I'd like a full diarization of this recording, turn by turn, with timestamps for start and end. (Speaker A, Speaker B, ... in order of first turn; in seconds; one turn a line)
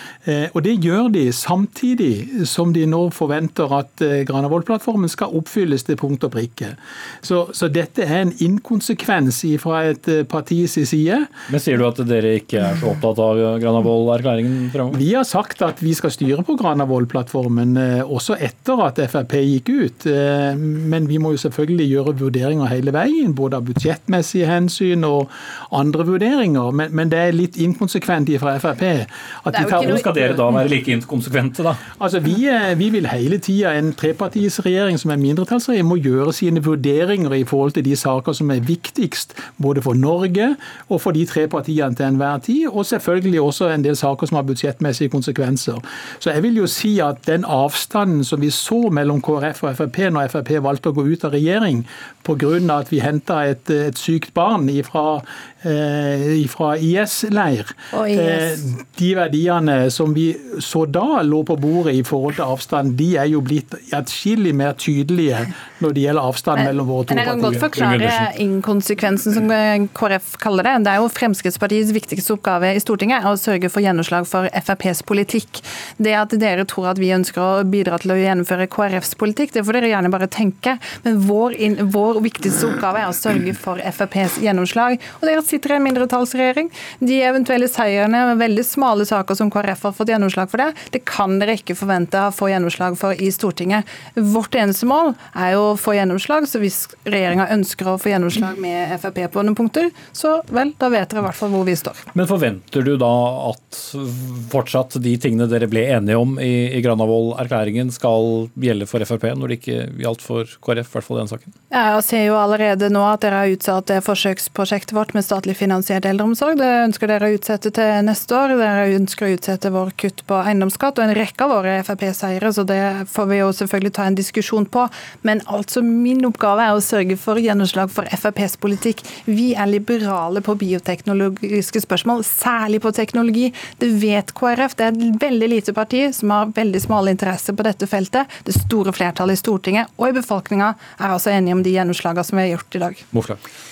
Speaker A: 0.2-11.3
Speaker B: 11.5-15.0
Speaker A: 14.9-30.1
Speaker B: 29.5-31.8
Speaker A: 31.9-68.0
Speaker C: 58.1-58.5
Speaker C: 66.5-102.0
Speaker B: 102.1-111.5
Speaker C: 111.7-143.0
Speaker B: 143.1-143.4